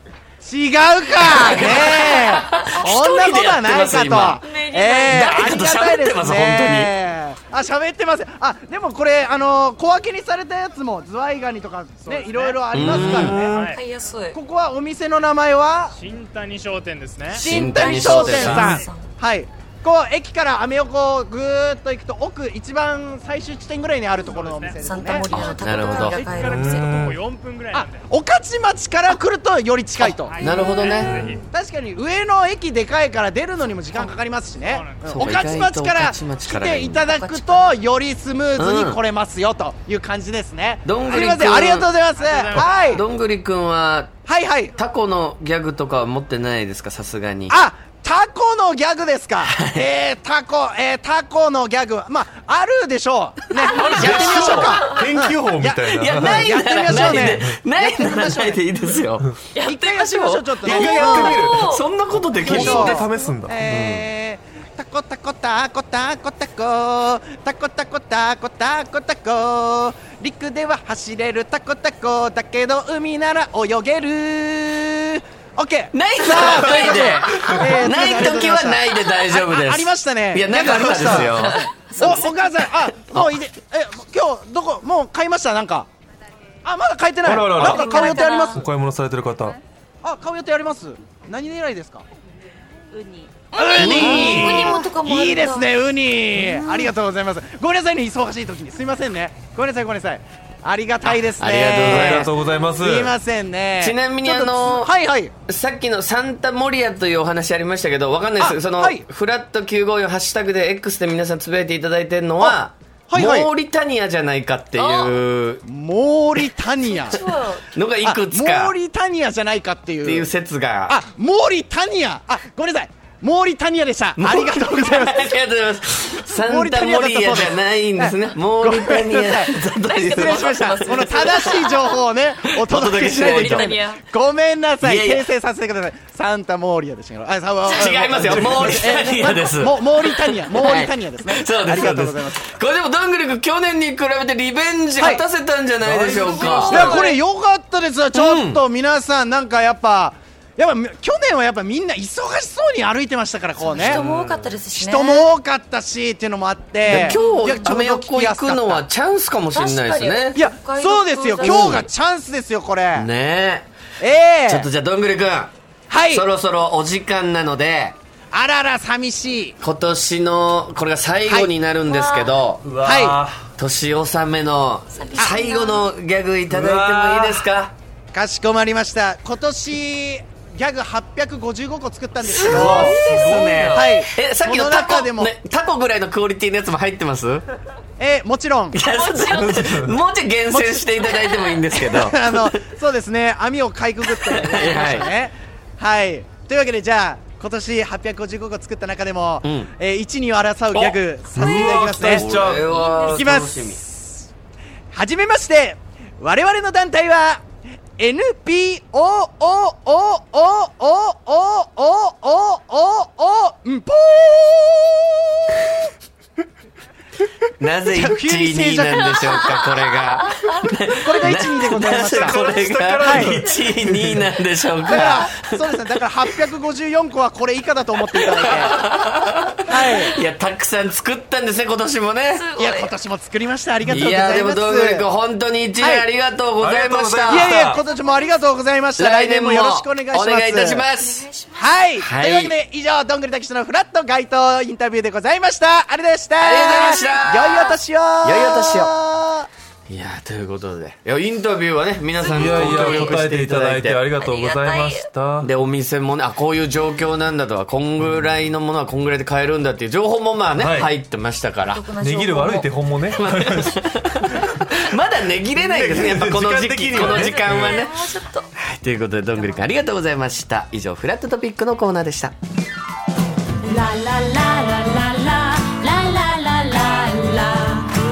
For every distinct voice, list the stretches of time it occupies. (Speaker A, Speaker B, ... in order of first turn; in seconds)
Speaker A: 0.4-13.5, 14.3-15.9, 17.3-25.3, 27.7-30.4, 31.5-43.0, 44.3-44.8, 47.5-58.6, 59.6-61.4, 62.4-81.4, 81.9-85.9, 86.7-88.6, 90.0-92.1, 93.5-105.3, 108.4-109.1, 112.4-113.5, 115.6-117.2, 118.0-120.3, 120.9-125.4, 126.2-142.4, 145.0-145.3, 146.7-154.0, 154.7-158.9, 160.4-163.1, 164.0-164.7, 165.9-166.3, 168.3-169.6, 171.2-171.5, 172.8-173.2, 178.1-183.1, 183.7-185.3, 188.0-188.8, 190.5-202.3, 203.1-204.3, 204.9-207.4, 208.0-215.6, 217.9-219.6, 221.0-222.4, 223.0-223.4, 224.9-228.8, 229.7-230.2, 232.6-235.1, 235.8-236.1, 237.3-240.9, 241.6-249.5
Speaker B: 1.2-4.4, 5.0-6.9, 12.7-13.6, 17.4-18.8, 25.3-26.2, 30.0-31.3, 35.0-37.1, 38.6-39.0, 40.9-41.9, 42.9-44.1, 44.8-47.6, 49.4-49.9, 54.1-54.6, 55.9-63.1, 63.6-64.1, 75.9-82.2, 83.1-83.4, 93.8-94.6, 101.4-102.3, 103.8-104.9, 105.5-115.6, 117.1-118.8, 120.0-121.0, 124.2-131.4, 132.5-133.7, 134.8-135.3, 137.6-147.0, 148.1-148.6, 156.9-160.4, 161.4-161.8, 162.9-163.7, 164.5-165.5, 166.1-168.0, 169.6-172.6, 173.6-177.8, 182.4-187.5, 188.7-192.6, 194.3-195.1, 199.4-199.7, 201.8-203.8, 217.6-225.8, 228.1-232.5, 233.9-237.8, 239.0-241.3, 242.0-242.6, 246.4-248.9, 249.9-254.2, 255.4-261.9, 263.1-268.1, 268.6-272.4
Speaker C: 4.4-5.3, 13.7-14.4, 17.8-19.1, 24.8-26.9, 37.0-37.8, 53.9-54.2, 59.5-59.9, 61.0-61.8, 81.4-82.1, 87.6-88.6, 93.3-95.7, 96.3-96.9, 114.8-115.1, 116.8-117.7, 130.1-131.8, 133.2-134.0, 146.3-147.2, 153.6-155.3, 156.9-157.7, 159.5-161.9, 171.9-172.4, 174.9-175.9, 182.2-184.0, 188.9-189.5, 202.7-203.2, 232.3-232.9, 237.9-238.4, 241.0-241.7, 252.4-253.0, 254.2-255.1, 261.7-262.7, 266.9-268.5, 269.4-269.6, 273.6-277.8
Speaker D: 12.0-13.8, 16.0-18.7, 24.2-28.1, 30.2-31.4, 34.7-35.1, 42.1-43.0, 274.6-276.1, 276.8-277.4
Speaker E: 12.8-13.7, 18.3-18.8, 26.2-27.2, 31.0-31.4, 53.7-57.6, 60.6-63.6, 76.7-77.9, 80.7-81.4, 87.2-89.6, 93.9-94.7, 101.8-103.2, 137.8-139.2, 145.8-147.0, 153.8-154.6, 172.6-173.5, 176.5-177.5, 189.3-190.0, 200.7-203.2, 221.4-224.3, 236.6-237.8, 252.2-255.5, 260.6-260.9, 261.8-263.8, 264.4-264.8, 265.4-267.9